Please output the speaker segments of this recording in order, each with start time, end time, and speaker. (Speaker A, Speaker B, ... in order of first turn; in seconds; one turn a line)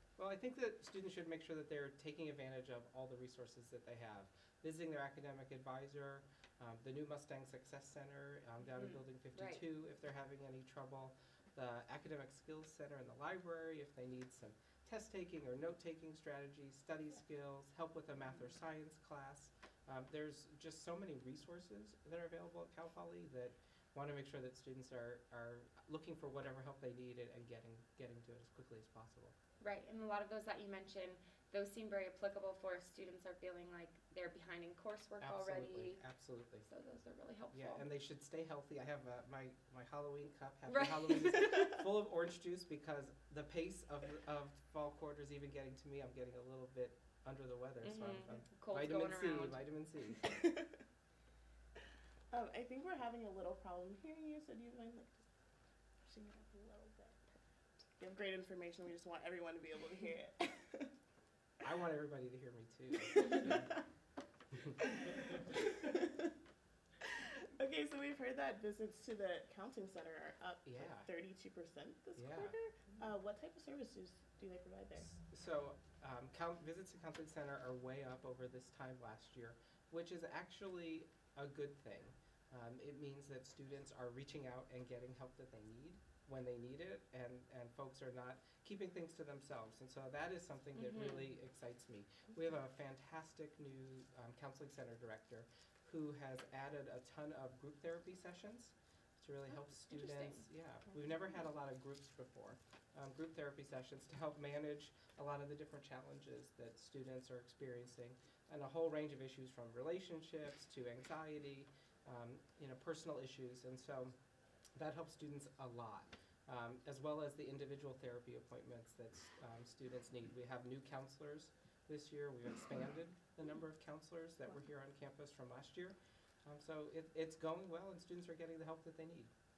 Speaker A: 0.2-29.4
Speaker B: 8.8-9.6
Speaker B: 18.3-18.5
Speaker B: 29.6-36.0
Speaker A: 35.2-36.7
Speaker B: 36.6-37.9
Speaker A: 37.5-50.3
Speaker B: 40.7-41.8
Speaker B: 47.8-49.7
Speaker C: 50.2-50.8
Speaker C: 52.3-55.3
Speaker C: 56.1-57.4
Speaker C: 58.0-60.9
Speaker A: 61.6-63.8
Speaker C: 63.0-63.6
Speaker C: 64.8-66.3
Speaker C: 67.6-75.1
Speaker A: 70.7-71.1
Speaker A: 72.2-72.6
Speaker A: 75.0-114.2
Speaker B: 90.8-91.3
Speaker B: 99.5-100.5
Speaker A: 114.8-129.3